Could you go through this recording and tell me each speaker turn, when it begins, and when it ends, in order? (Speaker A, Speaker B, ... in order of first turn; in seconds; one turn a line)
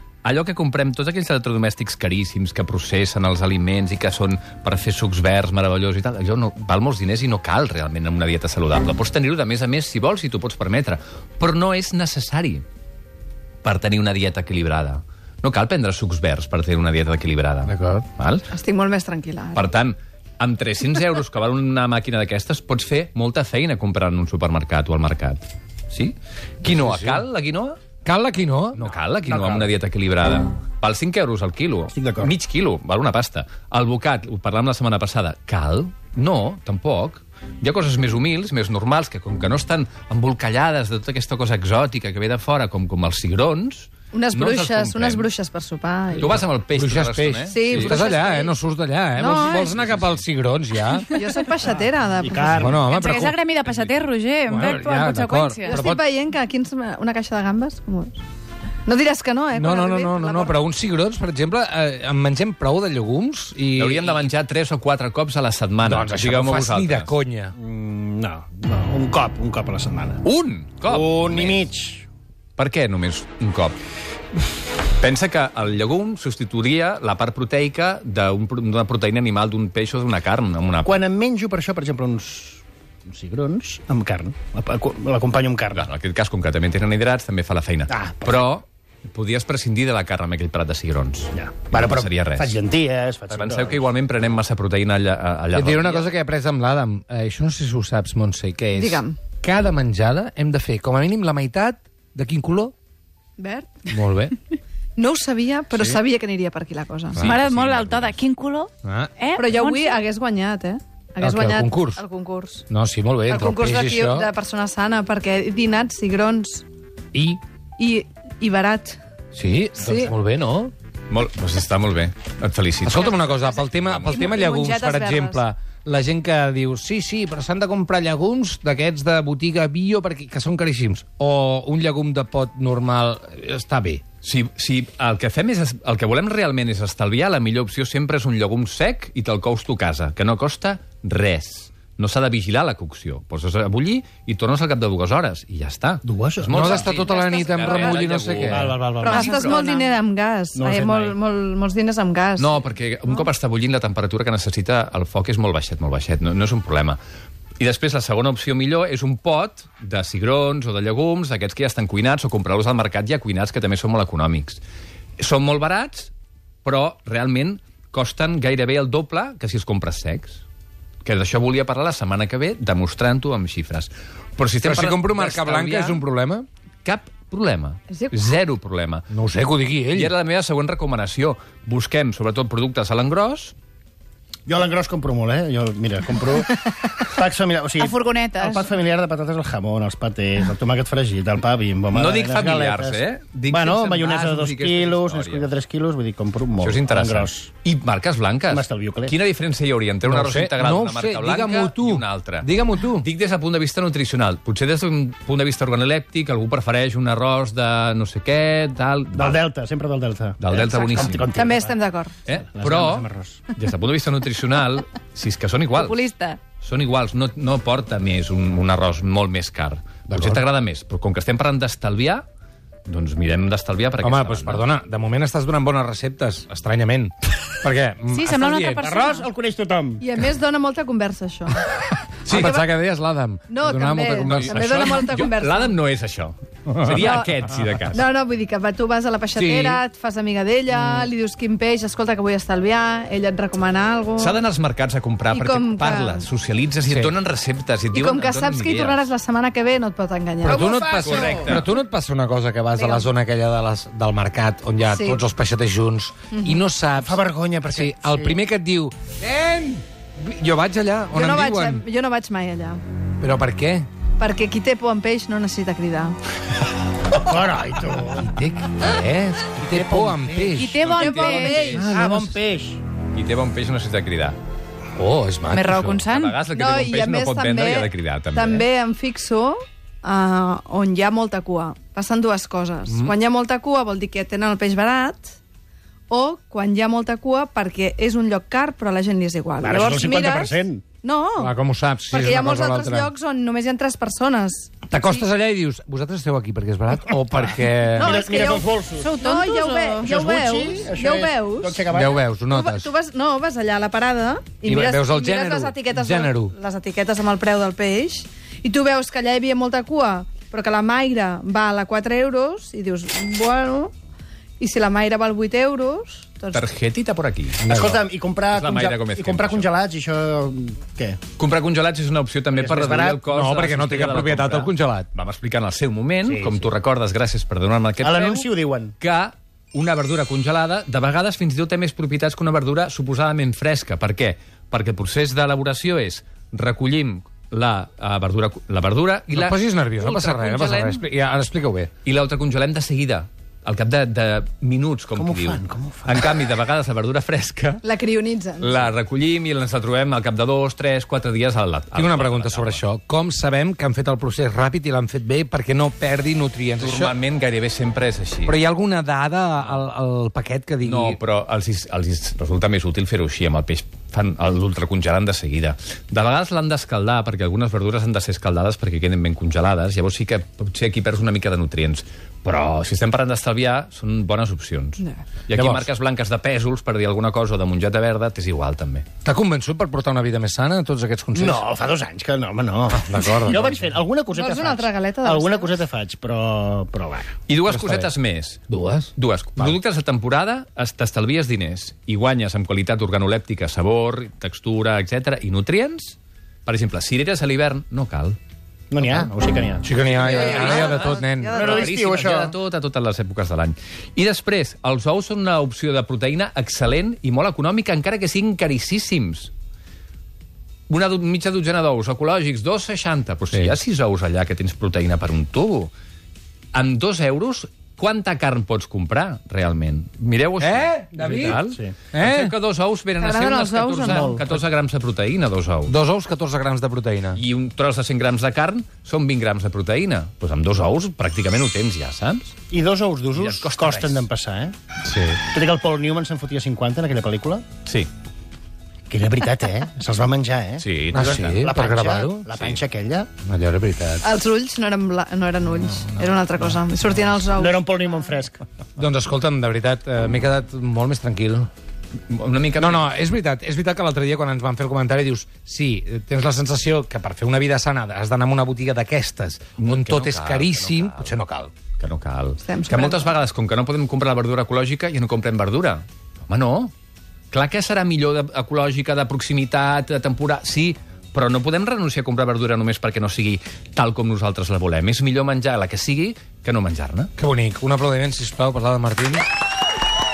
Speaker A: 0.2-12.6
Speaker A: 13.6-18.5
Speaker B: 17.6-18.1
Speaker C: 18.5-19.7
Speaker A: 19.5-27.8
Speaker B: 26.6-27.2
Speaker B: 28.0-29.7
Speaker A: 28.8-45.3
Speaker D: 31.9-32.3
Speaker C: 44.1-46.4
Speaker A: 46.1-48.2
Speaker B: 46.7-51.1
Speaker C: 47.5-48.5
Speaker C: 49.2-49.8
Speaker E: 51.0-51.3
Speaker C: 51.1-52.7
Speaker D: 52.2-52.9
Speaker B: 52.5-53.4
Speaker E: 52.7-55.8
Speaker A: 53.6-54.0
Speaker B: 54.5-56.0
Speaker C: 55.6-58.2
Speaker C: 58.9-60.6
Speaker B: 59.5-64.3
Speaker A: 63.8-67.1
Speaker B: 65.8-67.5
Speaker D: 67.5-70.2
Speaker A: 70.2-71.7
Speaker D: 70.8-72.0
Speaker A: 72.6-73.8
Speaker A: 75.0-81.0
Speaker D: 80.8-85.9
Speaker A: 85.7-92.5
Speaker D: 87.9-88.5
Speaker D: 91.3-93.8
Speaker A: 93.3-96.1
Speaker B: 95.5-102.7
Speaker C: 98.7-99.2
Speaker C: 103.4-103.9
Speaker B: 103.9-104.3
Speaker C: 105.0-107.3
Speaker A: 107.2-108.2
Speaker E: 107.2-110.1
Speaker B: 108.8-109.1
Speaker C: 109.3-112.7
Speaker B: 111.2-112.0
Speaker B: 112.7-114.3
Speaker C: 113.2-116.6
Speaker B: 117.1-117.4
Speaker C: 117.8-119.0
Speaker B: 119.3-120.7
Speaker C: 119.8-120.1
Speaker A: 121.1-124.3
Speaker B: 122.8-134.0
Speaker C: 124.0-125.4
Speaker A: 134.2-149.6
Speaker D: 146.0-146.8
Speaker B: 146.5-148.8
Speaker E: 147.0-147.5
Speaker C: 147.4-148.0
Speaker D: 148.5-149.6
Speaker C: 149.0-152.7
Speaker E: 149.1-149.9
Speaker D: 150.5-151.2
Speaker A: 152.4-157.0
Speaker A: 157.6-164.6
Speaker A: 165.2-166.1
Speaker A: 166.6-170.4
Speaker A: 171.0-176.0
Speaker B: 174.6-176.4
Speaker A: 176.8-179.0
Speaker B: 179.1-180.1
Speaker A: 179.9-183.5
Speaker D: 184.5-197.5
Speaker E: 186.6-187.1
Speaker E: 187.8-188.7
Speaker A: 191.9-195.5
Speaker A: 196.6-209.4
Speaker D: 198.5-199.1
Speaker B: 200.1-203.1
Speaker D: 209.1-211.8
Speaker A: 210.4-211.2
Speaker C: 211.3-212.1
Speaker A: 212.2-216.1
Speaker D: 212.3-213.4
Speaker C: 215.8-216.4
Speaker E: 215.8-216.1
Speaker A: 216.6-222.2
Speaker B: 220.1-220.4
Speaker A: 222.8-224.7
Speaker B: 224.0-228.9
Speaker E: 228.1-229.3
Speaker D: 228.8-230.0
Speaker C: 230.0-231.6
Speaker C: 232.2-232.7
Speaker B: 232.2-234.6
Speaker C: 233.5-235.8
Speaker A: 234.2-238.0
Speaker B: 236.7-237.1
Speaker C: 236.9-237.3
Speaker C: 237.8-244.4
Speaker B: 239.3-239.8
Speaker B: 240.7-241.1
Speaker A: 244.2-249.1
Speaker C: 245.3-246.3
Speaker B: 246.8-247.1
Speaker C: 247.9-250.8
Speaker B: 250.4-261.8
Speaker A: 250.9-251.7
Speaker C: 252.8-253.1
Speaker C: 254.9-255.2
Speaker C: 256.3-256.6
Speaker D: 257.0-258.4
Speaker C: 261.1-262.8
Speaker B: 263.2-263.9
Speaker C: 264.2-266.2
Speaker D: 267.1-268.3
Speaker B: 267.9-270.9
Speaker D: 269.6-270.6
Speaker E: 270.6-271.9
Speaker A: 270.8-271.8
Speaker C: 270.8-271.9
Speaker B: 271.5-272.3
Speaker D: 271.7-272.8
Speaker A: 273.1-274.4
Speaker B: 274.9-276.0
Speaker E: 275.5-276.5
Speaker A: 276.0-278.6
Speaker C: 276.5-285.4
Speaker C: 286.1-291.5
Speaker D: 289.6-290.8
Speaker B: 291.4-293.1
Speaker C: 292.1-294.7
Speaker B: 294.9-298.2
Speaker C: 297.9-301.8
Speaker D: 298.0-299.1
Speaker E: 299.0-300.1
Speaker D: 300.0-302.2
Speaker B: 301.9-302.9
Speaker C: 302.5-313.9
Speaker B: 304.6-306.5
Speaker C: 314.6-316.6
Speaker A: 316.5-317.6
Speaker B: 317.6-318.0
Speaker D: 317.7-321.2
Speaker A: 318.5-319.7
Speaker A: 321.4-328.5
Speaker D: 322.5-323.2
Speaker B: 323.2-325.1
Speaker D: 326.2-326.6
Speaker D: 328.0-328.9
Speaker A: 329.0-339.7
Speaker B: 339.3-341.9
Speaker E: 340.0-341.0
Speaker A: 342.0-347.8
Speaker D: 345.1-346.2
Speaker C: 347.8-348.8
Speaker A: 348.6-352.8
Speaker B: 351.9-357.1
Speaker A: 356.8-358.6
Speaker B: 358.4-361.2
Speaker A: 360.8-379.1
Speaker B: 375.5-375.9
Speaker B: 379.2-381.6
Speaker D: 381.3-387.3
Speaker B: 382.9-383.9
Speaker C: 384.3-385.7
Speaker A: 387.5-388.6
Speaker B: 387.7-388.1
Speaker B: 388.7-389.8
Speaker A: 389.1-398.4
Speaker D: 398.9-400.9
Speaker B: 399.8-401.8
Speaker A: 400.1-409.5
Speaker C: 400.6-401.7
Speaker D: 401.5-402.5
Speaker A: 410.9-415.9
Speaker A: 416.7-425.9
Speaker B: 420.6-421.6
Speaker D: 421.5-421.9
Speaker B: 422.1-422.5
Speaker C: 423.2-424.4
Speaker D: 424.0-424.6
Speaker B: 425.9-427.4
Speaker A: 427.4-432.5
Speaker D: 432.7-434.7
Speaker A: 433.3-434.3
Speaker B: 435.1-435.4
Speaker D: 435.5-437.6
Speaker D: 439.1-443.3
Speaker A: 440.8-441.6
Speaker B: 441.1-442.5
Speaker B: 443.4-444.3
Speaker C: 444.2-447.8
Speaker D: 447.5-448.6
Speaker B: 449.0-451.7
Speaker A: 452.3-453.1
Speaker B: 452.8-461.7
Speaker A: 459.8-461.3
Speaker A: 462.0-466.9
Speaker C: 462.6-463.3
Speaker A: 467.5-477.3
Speaker B: 477.4-479.4